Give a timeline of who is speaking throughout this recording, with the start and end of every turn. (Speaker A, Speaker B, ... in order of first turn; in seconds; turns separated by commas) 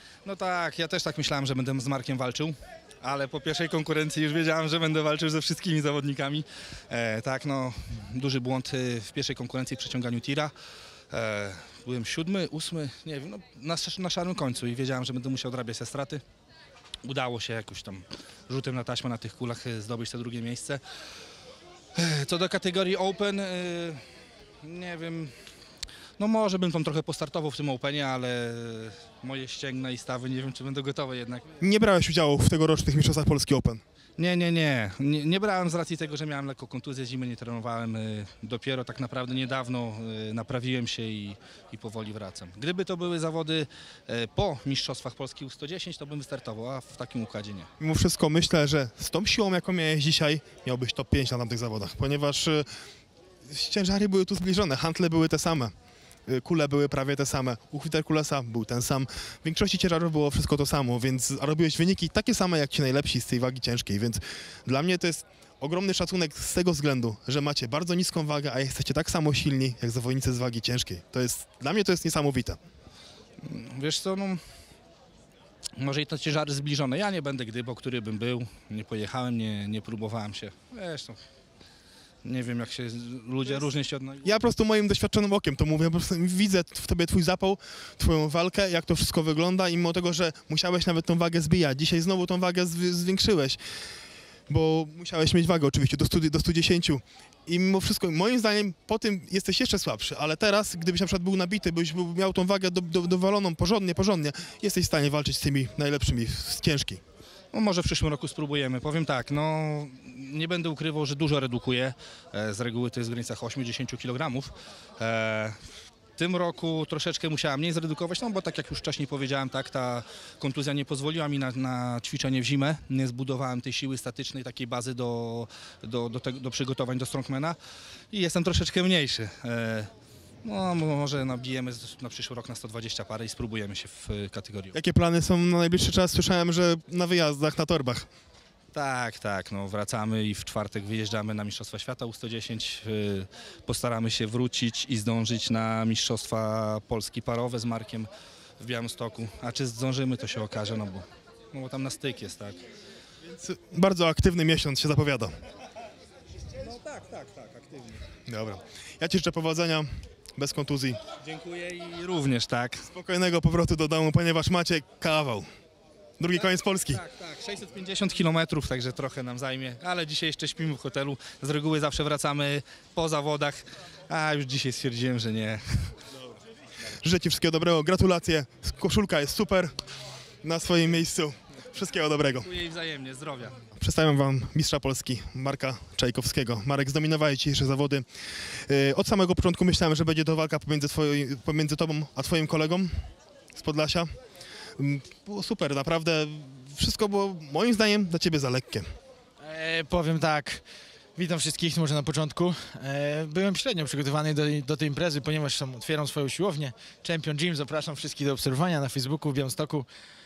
Speaker A: 0.2-10.5, Speaker A: 11.1-16.2, Speaker A: 17.0-20.8, Speaker A: 21.9-24.0, Speaker A: 24.6-25.3, Speaker A: 26.2-31.4, Speaker B: 31.6-33.8, Speaker A: 34.2-47.7, Speaker B: 47.8-52.7, Speaker B: 53.4-55.7, Speaker B: 56.3-72.6, Speaker A: 73.4-74.4, Speaker A: 75.8-81.2, Speaker A: 82.2-84.3, Speaker B: 84.2-93.6, Speaker B: 94.5-107.0, Speaker A: 107.5-115.6, Speaker A: 116.2-127.6, Speaker A: 128.1-129.9, Speaker A: 130.4-134.7, Speaker B: 134.7-138.1, Speaker A: 138.7-152.6, Speaker B: 153.3-155.3, Speaker A: 156.6-158.0, Speaker B: 158.3-161.0, Speaker A: 161.2-162.8, Speaker B: 162.9-165.4, Speaker B: 166.2-167.0, Speaker A: 166.9-175.9, Speaker B: 177.0-179.7, Speaker B: 180.4-182.5, Speaker A: 182.4-183.5, Speaker B: 183.8-188.0, Speaker B: 188.7-193.0, Speaker B: 193.5-194.1, Speaker B: 194.8-198.8, Speaker C: 199.4-200.6, Speaker C: 201.2-209.8